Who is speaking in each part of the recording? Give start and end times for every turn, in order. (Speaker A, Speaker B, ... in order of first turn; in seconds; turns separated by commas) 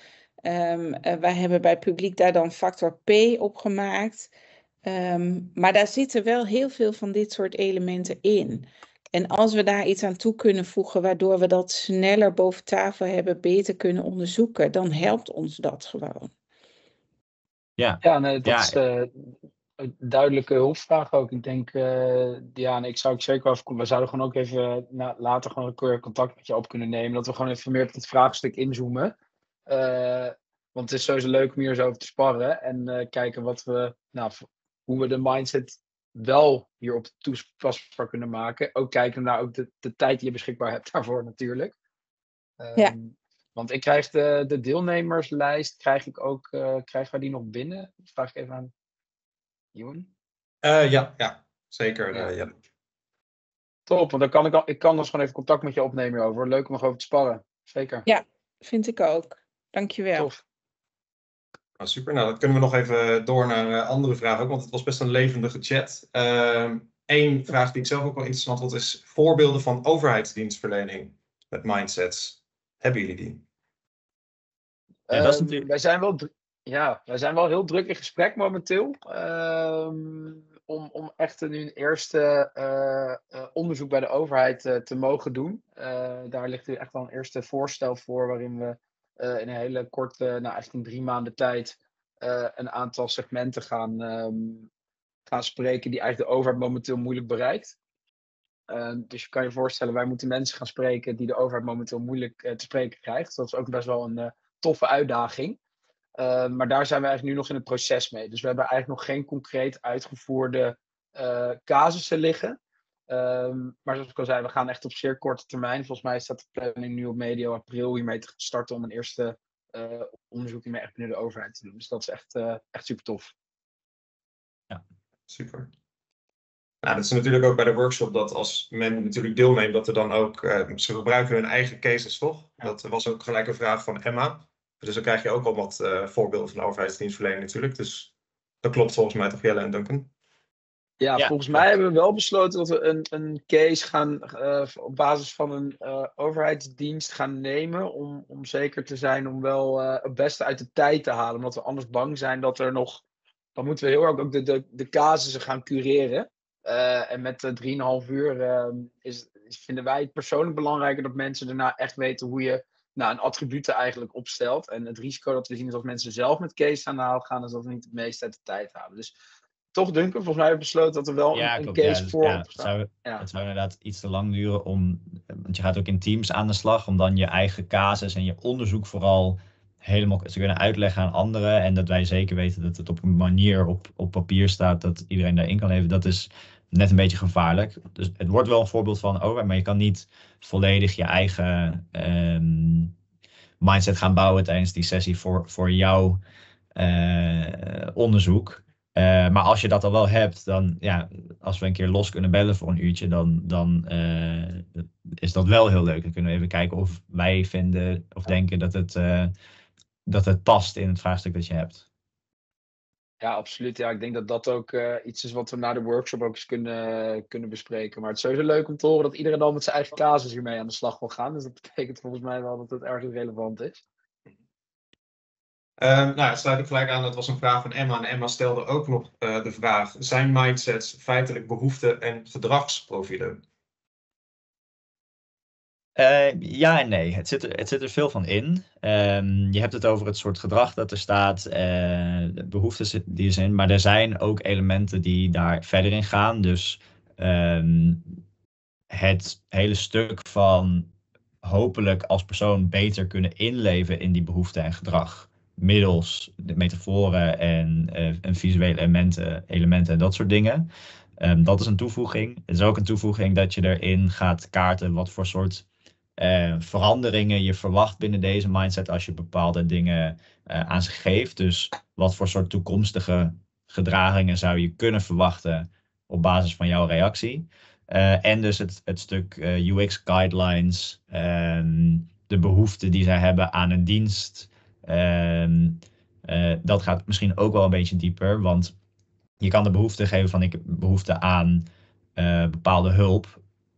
Speaker A: 0.4-4.3, Speaker A: 4.8-16.3, Speaker B: 17.8-18.8, Speaker C: 18.0-29.1, Speaker C: 29.7-41.7, Speaker C: 42.6-48.7, Speaker C: 49.7-50.1, Speaker D: 50.6-52.5, Speaker C: 53.9-58.0, Speaker A: 58.0-60.3, Speaker D: 61.8-73.4, Speaker C: 75.1-94.7, Speaker B: 75.1-75.7, Speaker C: 95.3-97.8, Speaker C: 98.7-105.6, Speaker C: 106.2-112.6, Speaker C: 113.1-123.3, Speaker D: 125.3-125.7, Speaker D: 126.8-138.1, Speaker D: 138.6-140.1, Speaker C: 141.0-153.0, Speaker B: 141.2-141.6, Speaker C: 153.6-169.1, Speaker C: 169.7-173.2, Speaker B: 171.3-192.9, Speaker B: 193.6-196.2, Speaker B: 196.8-209.3, Speaker B: 210.1-211.8, Speaker C: 213.2-223.8, Speaker D: 225.8-233.4, Speaker B: 235.9-248.2, Speaker B: 248.9-250.9, Speaker B: 251.4-260.7, Speaker B: 261.2-265.6, Speaker B: 266.2-288.7, Speaker B: 289.4-293.4